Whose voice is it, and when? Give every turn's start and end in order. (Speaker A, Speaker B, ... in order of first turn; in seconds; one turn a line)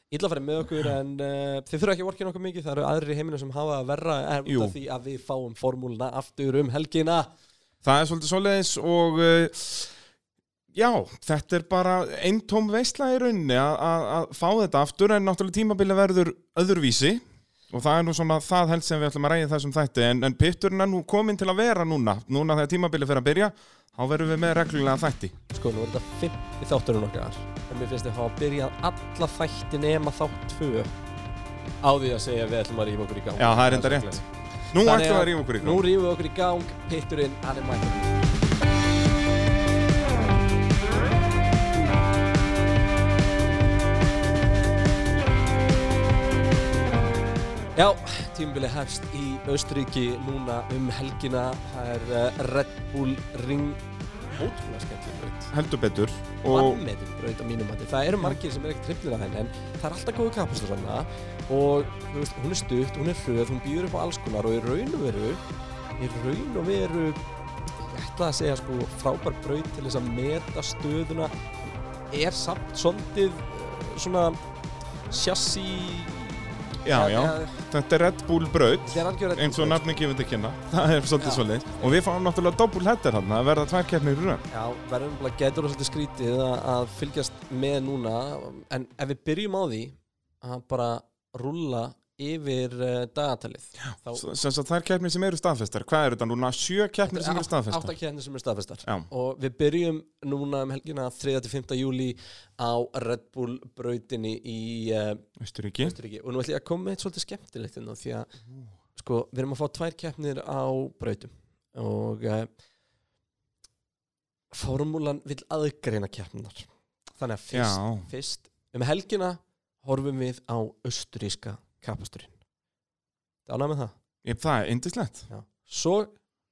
Speaker A: 0.1-7.3
Speaker B: 4.5-4.7
Speaker B: 7.8-9.9
Speaker B: 10.7-25.3
Speaker A: 25.5-30.9
Speaker A: 31.8-38.3
Speaker B: 33.4-35.8
Speaker A: 47.7-53.8
Speaker A: 54.3-55.5
Speaker B: 55.5-56.8
Speaker A: 56.5-65.4
Speaker A: 66.0-67.2
Speaker A: 67.8-71.3
Speaker A: 72.1-74.4
Speaker A: 75.1-77.6
Speaker B: 76.8-84.4
Speaker A: 78.8-80.1
Speaker A: 81.2-82.0
Speaker A: 84.5-94.2
Speaker B: 94.1-97.9
Speaker A: 97.0-105.2
Speaker B: 105.4-106.0
Speaker A: 105.8-108.3
Speaker A: 109.0-112.5
Speaker A: 114.5-122.3
Speaker B: 117.5-118.1
Speaker A: 123.5-123.9
Speaker B: 124.2-125.3
Speaker A: 125.3-126.1